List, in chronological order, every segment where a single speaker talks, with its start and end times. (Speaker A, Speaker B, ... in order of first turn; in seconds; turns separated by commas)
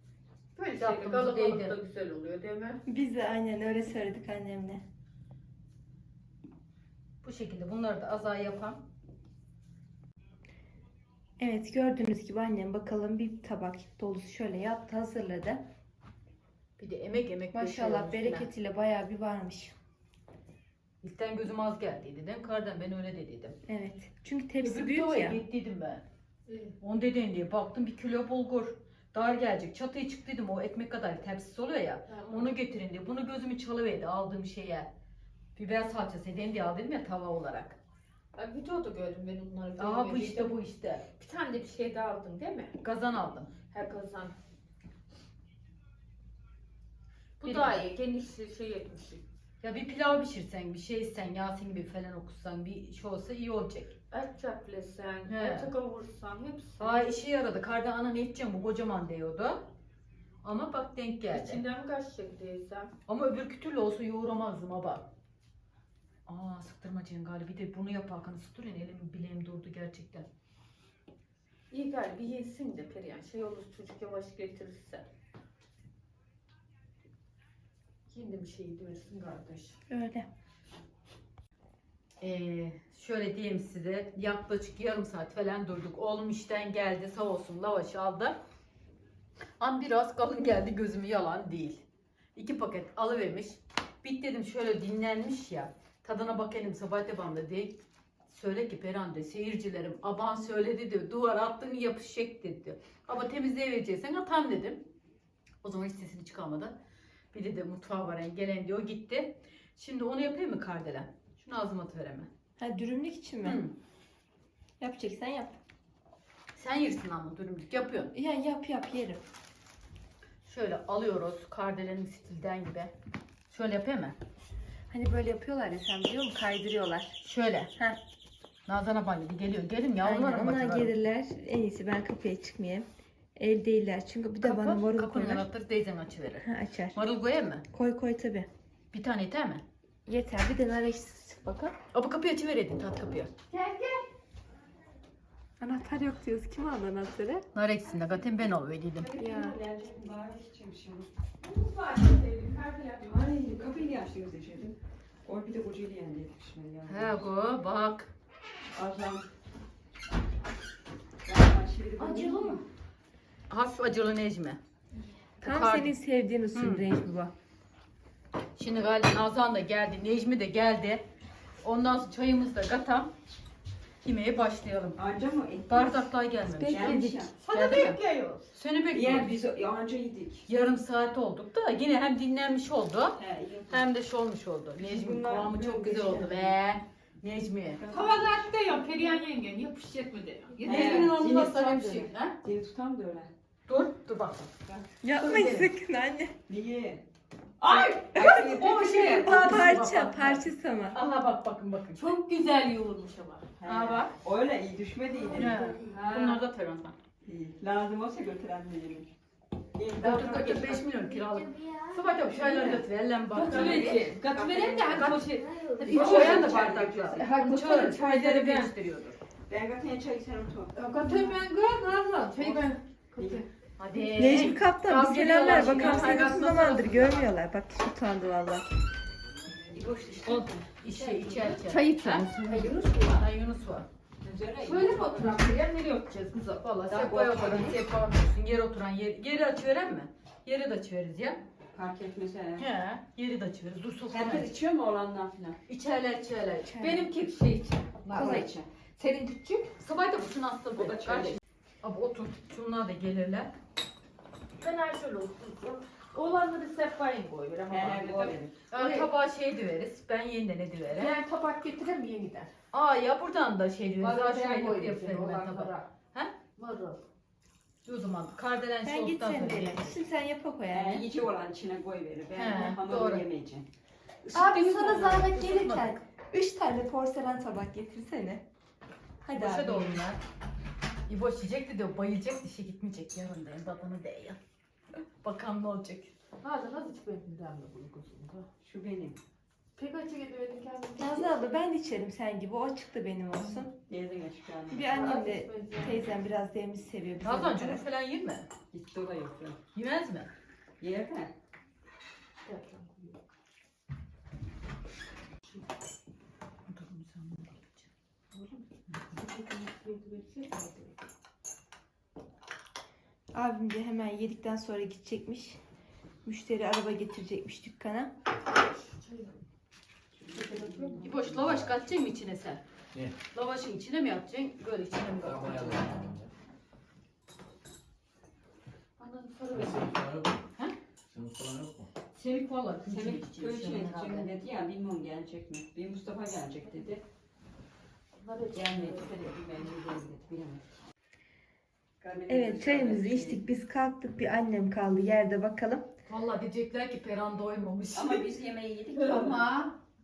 Speaker A: 0.6-2.8, Speaker B: 0.8-1.8, Speaker C: 2.9-4.8, Speaker B: 7.2-8.8, Speaker C: 11.4-15.6, Speaker B: 16.8-18.5, Speaker C: 17.5-19.7, Speaker B: 21.0-23.6, Speaker C: 23.7-25.4, Speaker B: 24.6-26.0, Speaker A: 26.5-26.8, Speaker B: 26.8-34.9, Speaker A: 32.1-32.5, Speaker B: 35.6-37.8, Speaker A: 38.4-42.8, Speaker B: 39.8-41.1, Speaker B: 42.8-43.6, Speaker A: 43.7-44.4, Speaker A: 47.4-49.2, Speaker B: 47.4-47.9, Speaker B: 49.6-53.9, Speaker A: 54.1-57.1, Speaker B: 55.3-55.7, Speaker B: 56.8-59.7, Speaker B: 60.4-61.6, Speaker A: 61.3-62.9, Speaker B: 63.1-65.1, Speaker B: 66.3-70.3, Speaker A: 71.7-75.0, Speaker A: 78.1-79.8, Speaker C: 79.9-80.3, Speaker B: 82.2-88.4, Speaker B: 89.6-91.8, Speaker B: 92.3-104.9, Speaker B: 105.6-106.8, Speaker B: 107.3-112.3, Speaker C: 112.6-113.6, Speaker B: 113.4-113.7, Speaker C: 114.8-115.6, Speaker B: 116.5-118.1, Speaker C: 118.1-119.2, Speaker B: 120.5-122.9, Speaker B: 123.5-124.2, Speaker C: 124.9-127.2, Speaker B: 127.2-127.7, Speaker B: 128.7-130.9, Speaker C: 130.0-135.5, Speaker B: 134.4-137.7, Speaker C: 136.4-136.9, Speaker C: 137.7-138.5, Speaker B: 138.9-139.6, Speaker C: 140.1-141.8, Speaker B: 141.9-143.3, Speaker A: 143.5-144.1, Speaker C: 145.6-147.5, Speaker B: 147.6-149.1, Speaker D: 149.0-151.1, Speaker C: 149.2-149.6, Speaker A: 151.4-153.3, Speaker D: 153.1-157.2, Speaker B: 156.9-158.1, Speaker D: 158.8-159.3, Speaker D: 161.2-162.6, Speaker B: 162.0-162.6, Speaker A: 162.2-162.6, Speaker B: 163.5-164.6, Speaker C: 165.4-167.3, Speaker B: 165.4-165.9, Speaker B: 166.5-166.8, Speaker B: 168.6-171.0, Speaker B: 171.6-173.1, Speaker B: 174.0-175.0, Speaker D: 175.0-177.3, Speaker B: 175.7-178.0, Speaker C: 176.5-177.3, Speaker A: 177.4-178.5, Speaker B: 178.5-179.3, Speaker D: 178.9-180.5, Speaker B: 180.5-183.2, Speaker D: 183.2-183.8, Speaker B: 183.7-187.8, Speaker D: 184.8-186.5, Speaker D: 187.8-188.2, Speaker A: 187.9-191.1, Speaker D: 190.6-193.3, Speaker B: 190.7-192.3, Speaker B: 193.7-194.5, Speaker C: 195.0-196.3, Speaker B: 195.2-195.7, Speaker D: 196.5-197.0, Speaker D: 197.6-199.7, Speaker A: 197.6-198.0, Speaker C: 198.1-201.0, Speaker B: 198.3-202.1, Speaker A: 202.0-204.1, Speaker D: 203.6-205.8, Speaker B: 203.7-204.0, Speaker B: 205.3-206.9, Speaker A: 205.8-206.4, Speaker D: 207.2-209.1, Speaker D: 209.7-210.8, Speaker B: 210.0-214.1, Speaker A: 211.8-218.7, Speaker D: 213.3-218.0, Speaker B: 214.9-219.2, Speaker D: 219.5-220.8, Speaker A: 220.7-223.5, Speaker D: 222.4-223.4, Speaker B: 223.8-227.2, Speaker C: 224.2-228.7, Speaker A: 225.3-226.5, Speaker D: 225.5-226.3, Speaker D: 229.7-231.5, Speaker B: 230.8-233.9, Speaker A: 231.5-233.2, Speaker D: 232.1-233.1, Speaker D: 234.2-235.5, Speaker A: 234.6-237.8, Speaker B: 236.9-241.4, Speaker D: 236.9-237.7, Speaker D: 241.7-242.7, Speaker B: 242.6-244.5, Speaker D: 244.1-245.6, Speaker B: 245.7-246.8, Speaker C: 246.7-247.1, Speaker A: 246.8-249.8, Speaker D: 248.1-248.7, Speaker C: 248.1-248.4, Speaker B: 249.8-253.5, Speaker D: 250.8-251.4, Speaker A: 254.6-259.1, Speaker D: 257.7-258.6, Speaker B: 258.7-261.1, Speaker A: 260.9-262.5, Speaker B: 262.7-266.4, Speaker A: 264.0-265.9, Speaker A: 266.6-267.0, Speaker B: 267.9-270.0, Speaker C: 268.8-271.1, Speaker D: 270.7-273.7, Speaker B: 272.4-273.2, Speaker D: 274.2-275.2, Speaker C: 274.3-278.4, Speaker B: 274.6-276.0, Speaker C: 279.2-280.0, Speaker B: 279.4-280.2, Speaker B: 281.1-284.4, Speaker B: 285.2-286.1, Speaker A: 286.4-288.5, Speaker D: 288.6-289.2, Speaker A: 289.8-291.4, Speaker C: 291.0-293.7, Speaker D: 293.6-295.2, Speaker C: 294.7-297.8, Speaker A: 294.9-296.1, Speaker B: 297.2-298.5, Speaker D: 298.7-299.6, Speaker B: 299.7-300.3, Speaker D: 300.8-301.3, Speaker A: 302.4-303.2, Speaker B: 306.7-307.9, Speaker A: 308.3-311.0, Speaker C: 313.3-315.6, Speaker C: 316.2-318.1, Speaker A: 318.5-319.4, Speaker D: 320.2-321.1, Speaker A: 320.3-321.1, Speaker B: 321.0-322.6, Speaker E: 321.3-321.8, Speaker B: 323.3-326.1, Speaker E: 325.2-326.3, Speaker A: 329.0-329.9, Speaker E: 329.5-330.4, Speaker E: 331.1-331.9, Speaker B: 332.1-334.3, Speaker D: 332.9-337.0, Speaker A: 338.2-339.1, Speaker D: 338.5-340.8, Speaker D: 342.0-343.4, Speaker C: 342.3-345.9, Speaker B: 346.1-348.3, Speaker D: 347.9-349.5, Speaker A: 348.9-349.8